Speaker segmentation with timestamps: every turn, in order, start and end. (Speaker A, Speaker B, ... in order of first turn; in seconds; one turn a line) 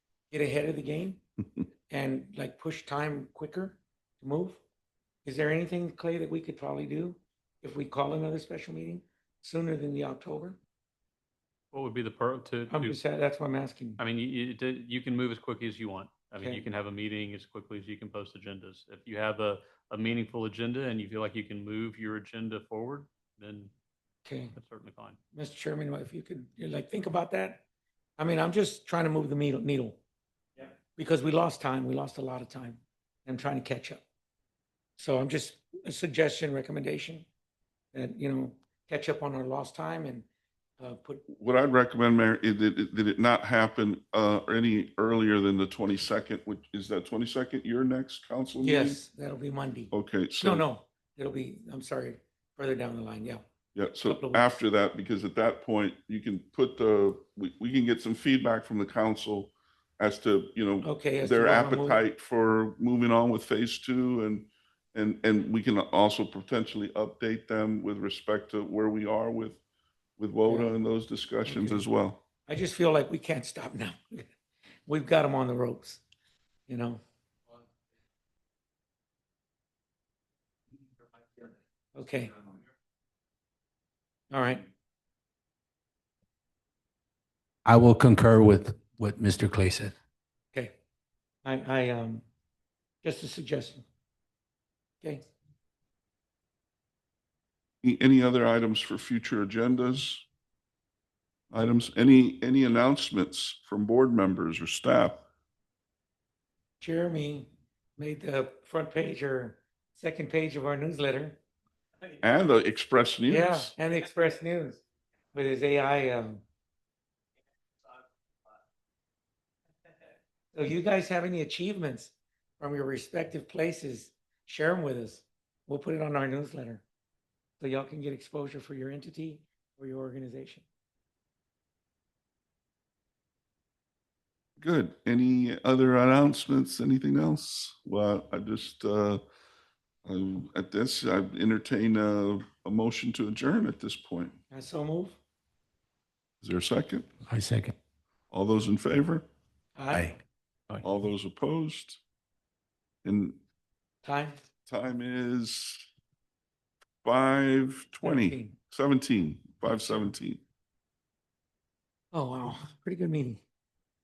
Speaker A: 0.3-1.2
Speaker A: 1.9-4.6
Speaker A: 5.2-10.6
Speaker B: 11.7-13.0
Speaker A: 12.7-14.0
Speaker B: 14.0-23.7
Speaker A: 16.4-16.6
Speaker A: 24.2-24.6
Speaker B: 24.5-25.2
Speaker A: 25.3-27.6
Speaker A: 28.2-30.0
Speaker A: 30.9-34.0
Speaker A: 35.0-37.3
Speaker A: 37.9-40.2
Speaker A: 40.8-41.2
Speaker C: 41.3-49.0
Speaker A: 48.6-53.4
Speaker C: 49.9-50.6
Speaker C: 53.7-69.6
Speaker A: 54.0-54.6
Speaker A: 60.8-62.0
Speaker C: 70.2-72.2
Speaker A: 70.4-70.8
Speaker A: 71.5-71.9
Speaker A: 72.5-74.3
Speaker A: 74.9-76.0
Speaker A: 76.7-77.0
Speaker A: 81.9-82.3
Speaker A: 84.3-84.6
Speaker D: 87.6-89.9
Speaker A: 91.4-92.2
Speaker A: 93.0-93.8
Speaker C: 97.8-100.2
Speaker C: 101.5-105.2
Speaker A: 106.8-111.4
Speaker C: 112.2-113.7
Speaker A: 113.3-114.8
Speaker A: 115.3-116.4
Speaker A: 120.5-126.8
Speaker A: 127.6-130.6
Speaker C: 134.6-139.2
Speaker C: 140.0-144.3
Speaker A: 144.5-145.2
Speaker C: 146.4-147.1
Speaker D: 147.3-147.7
Speaker C: 148.3-149.2
Speaker A: 149.8-150.1
Speaker D: 149.9-150.2
Speaker C: 150.8-152.0
Speaker C: 153.0-153.4
Speaker A: 154.0-154.4
Speaker C: 154.7-155.9
Speaker C: 157.0-160.4
Speaker A: 158.0-158.6
Speaker A: 162.1-163.4